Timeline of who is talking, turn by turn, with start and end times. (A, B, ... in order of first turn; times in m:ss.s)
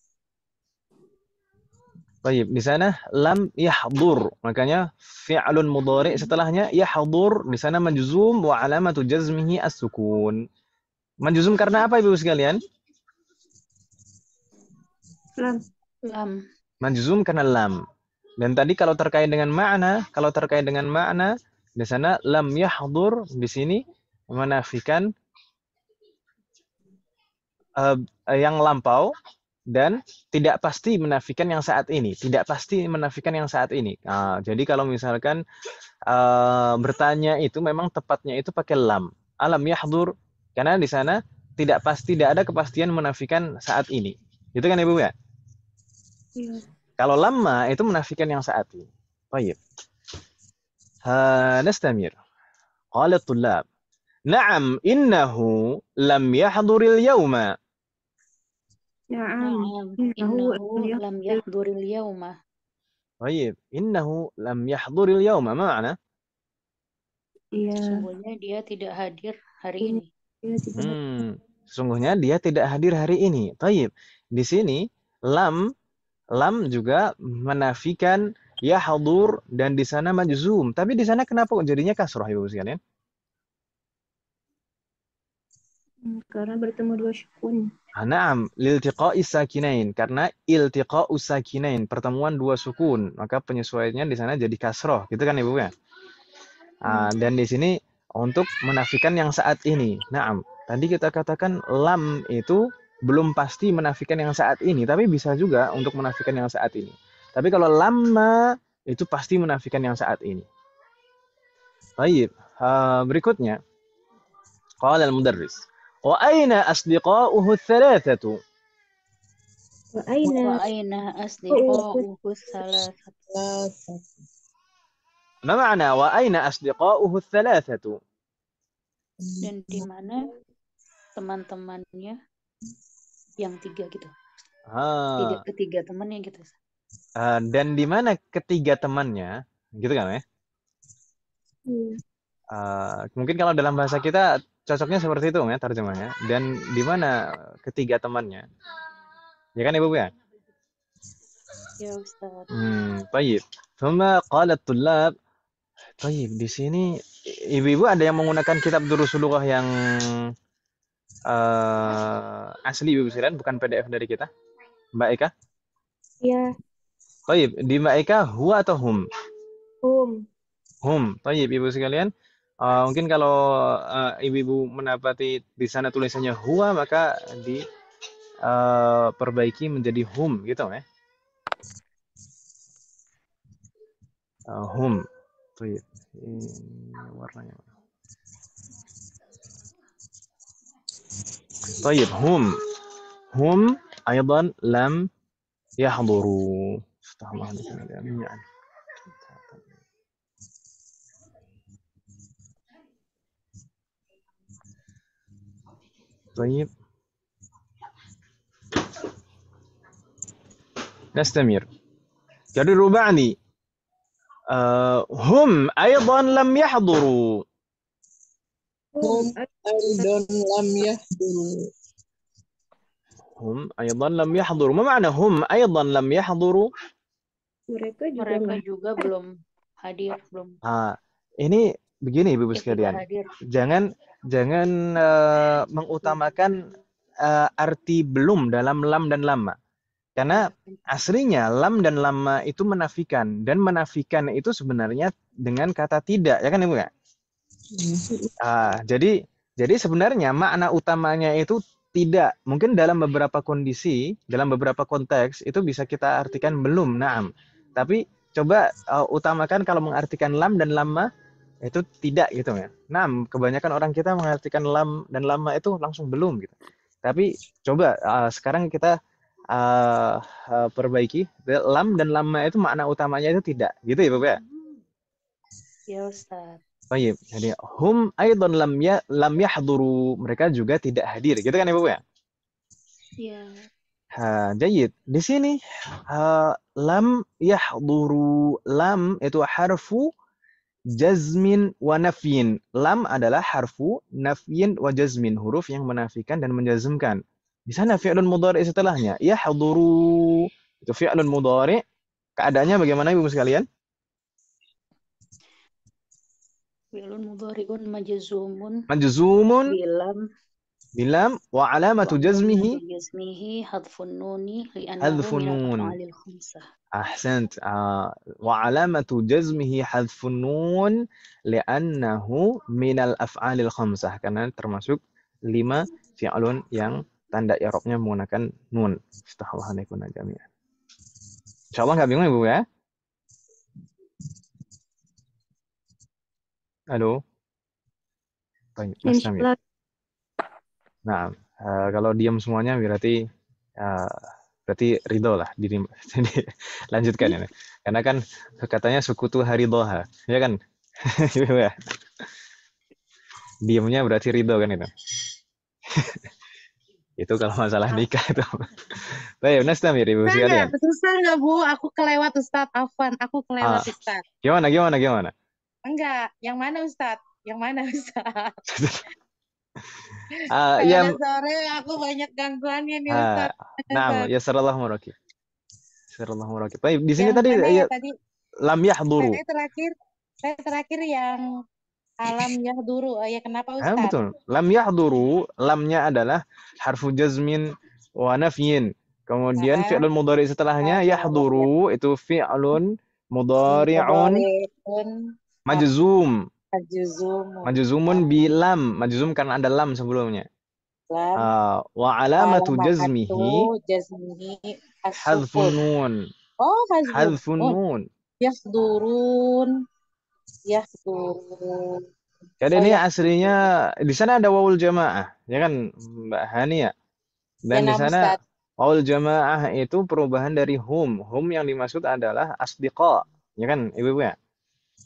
0:02.2-0:10.4 A
0:11.2-0:12.6 A
0:15.4-0:15.6 B
0:16.1-0:16.4 C
0:16.8-0:17.8 A
0:18.4-0:25.1 A
0:27.8-0:29.1 A
0:29.7-0:35.4 A
0:36.1-0:45.1 A
0:46.4-0:46.6 B
0:47.0-0:49.6 A
0:51.1-0:52.1 A
0:53.0-0:53.6 A
0:54.3-0:57.5 A
0:59.1-1:01.4 B
0:59.4-1:02.3 C
1:03.2-1:06.0 A
1:07.6-1:08.1 B
1:07.8-1:10.1 C
1:09.8-1:11.0 B
1:10.8-1:15.6 A
1:16.4-1:22.8 A
1:26.0-1:27.7 B
1:28.0-1:35.7 A
1:36.8-1:50.5 A
1:36.9-1:37.1 B
1:52.0-1:53.6 A
1:54.8-1:58.4 A
2:00.0-2:00.6 B
2:00.2-2:03.2 C
2:01.5-2:02.1 B
2:03.3-2:04.0 D
2:05.5-2:08.0 A
2:09.2-2:09.9 D
2:09.4-2:10.2 C
2:11.2-2:12.2 C
2:13.4-2:14.1 C
2:14.7-2:15.4 A
2:15.2-2:16.6 C
2:17.2-2:20.2 A
2:21.7-2:22.0 B
2:22.6-2:28.5 A
2:29.6-2:30.1 A
2:31.8-2:32.5 B
2:32.5-2:35.1 A
2:36.0-2:36.9 A
2:37.5-2:40.1 A
2:41.3-2:44.3 A
2:45.0-2:45.3 A
2:46.2-2:46.5 B
2:47.3-2:49.0 A
2:49.8-2:50.2 B
2:50.8-2:52.1 A
2:52.6-2:57.6 A
2:58.5-3:00.8 A
3:04.5-3:05.0 A
3:05.6-3:07.6 A
3:11.8-3:12.6 A
3:13.4-3:15.1 A
3:15.8-3:18.4 A
3:26.4-3:26.7 A
3:31.2-3:31.7 A
3:32.6-3:33.4 A
3:34.5-3:37.4 A
3:39.0-3:40.1 B
3:39.0-3:41.6 D
3:43.4-3:46.7 A
3:47.7-3:49.1 B
3:48.2-3:50.6 C
3:50.6-3:53.0 A
3:52.6-3:53.3 C
3:53.5-3:56.6 A
3:57.2-3:59.6 A
4:00.2-4:06.9 A
4:00.3-4:00.8 C
4:07.8-4:08.1 D
4:08.4-4:21.1 A
4:21.6-4:28.9 A
4:29.5-4:34.4 A
4:35.9-4:36.6 C
4:36.9-4:42.0 A
4:44.2-4:45.6 A
4:46.1-4:50.1 A
4:51.0-5:01.8 A
5:02.4-5:03.7 A
5:07.0-5:08.9 C
5:08.9-5:09.7 A
5:09.7-5:10.2 C
5:11.0-5:12.8 A
5:12.0-5:16.6 C
5:15.0-5:15.9 A
5:17.0-5:21.0 A
5:21.5-5:30.5 A
5:31.7-5:32.6 A
5:36.9-5:37.2 A
5:38.8-5:39.5 A
5:39.0-5:39.6 B
5:41.1-5:43.2 A
5:43.8-5:51.8 A
5:53.7-5:54.9 A
5:55.9-5:56.2 A
5:57.2-6:00.7 A
6:00.3-6:04.2 E
6:03.6-6:03.9 A
6:04.4-6:05.3 A
6:05.9-6:08.6 E
6:08.7-6:09.0 A
6:10.3-6:14.3 E
6:10.5-6:11.2 A
6:13.1-6:15.1 A
6:16.1-6:17.9 A
6:17.2-6:18.1 E
6:18.6-6:19.4 A
6:19.2-6:19.9 E
6:20.4-6:21.4 E
6:22.2-6:24.2 E
6:23.8-6:27.7 A
6:28.2-6:34.4 A
6:29.6-6:30.1 E
6:30.8-6:31.7 E
6:33.7-6:35.1 E
6:35.7-6:36.4 A
6:36.8-6:38.2 E
6:37.6-6:40.5 A
6:41.1-6:41.5 E
6:41.4-6:43.7 A
6:42.4-6:45.8 E
6:45.2-6:46.2 A
6:46.6-6:47.8 E
6:47.1-6:48.0 A
6:48.4-6:49.7 E
6:50.7-6:52.0 E
6:52.6-6:56.9 A
6:52.7-6:53.0 E
6:57.7-7:04.4 A
6:57.7-6:58.4 E